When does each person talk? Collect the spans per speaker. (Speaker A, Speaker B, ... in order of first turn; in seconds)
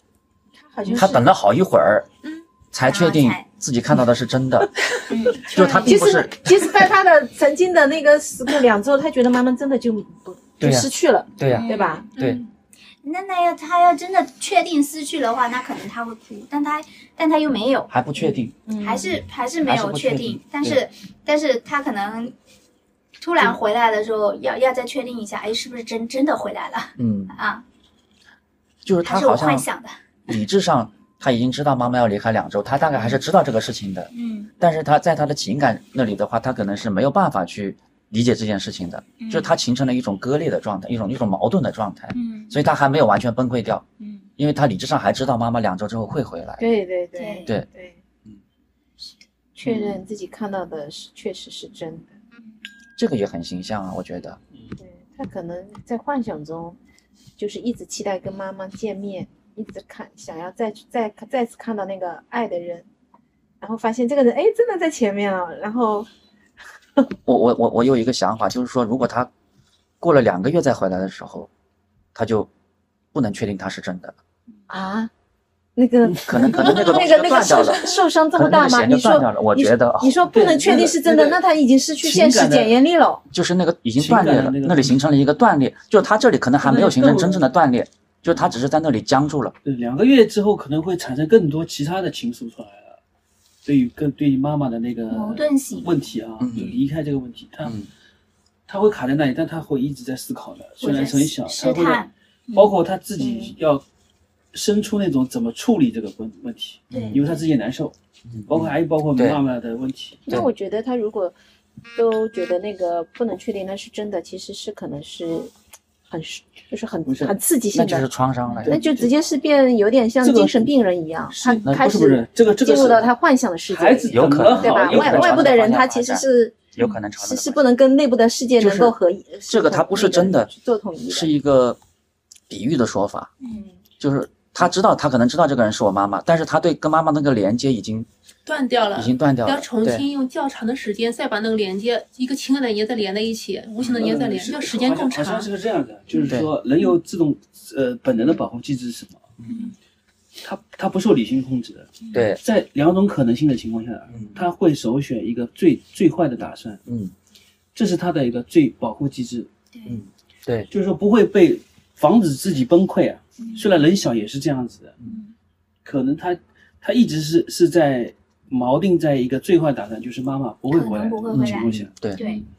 Speaker A: 0.5-1.3, 5.5-12.1, 18.1-19.2, 46.6-48.0, 49.5-52.1, 54.8-56.8, 57.4-62.9, 63.6-66.1, 74.7-75.1, 75.8-83.2, 103.2-103.6, 110.2-111.3, 111.9-115.5, 116.1-118.1, 118.7-131.3, 133.5-133.8
Speaker B: 0.8-2.1, 2.7-4.7, 5.4-6.9, 10.6-12.4, 17.9-18.5, 19.6-20.8, 27.0-27.3, 28.8-29.7, 30.3-43.8, 44.4-46.6, 49.6-50.0, 53.0-54.4, 67.2-69.3, 70.0-71.5, 72.1-72.5, 73.1-74.2, 76.2-80.3, 83.3-89.5, 96.4-96.8, 106.9-107.2, 108.3-109.4, 117.7-118.8, 124.1-127.6, 128.6-128.9, 129.5-130.5, 131.1-131.8, 132.5-133.3, 134.0-138.1, 138.9-140.1, 143.8-144.2, 149.4-149.6, 152.1-152.4, 154.1-154.5, 156.8-157.1, 159.9-160.7, 171.3-172.2
Speaker C: 2.8-3.5, 5.1-5.9, 11.5-12.1, 13.0-17.9, 18.8-22.3, 23.2-27.6, 29.0-30.0, 34.1-34.5, 39.2-39.5, 42.1-42.6, 44.0-44.3, 47.1-47.5, 95.1-96.0, 100.8-102.7, 106.9-107.4, 133.4-133.7, 149.5-149.8, 152.0-152.3, 159.7-160.0, 163.4-163.7, 165.1-165.3, 170.7-172.4
Speaker D: 12.1-12.4, 77.5-77.7, 138.4-145.5
Speaker E: 76.1-76.8, 80.3-81.4, 82.0-82.7, 84.0-84.9, 86.6-87.4, 89.6-93.0, 93.6-97.8, 98.7-103.8, 104.5-107.9, 108.5-110.3, 117.0-117.3, 118.5-119.1, 120.2-120.6, 121.3-123.1, 123.7-125.6, 143.9-149.3, 150.4-156.8, 157.7-159.5, 160.7-164.9, 165.8-171.9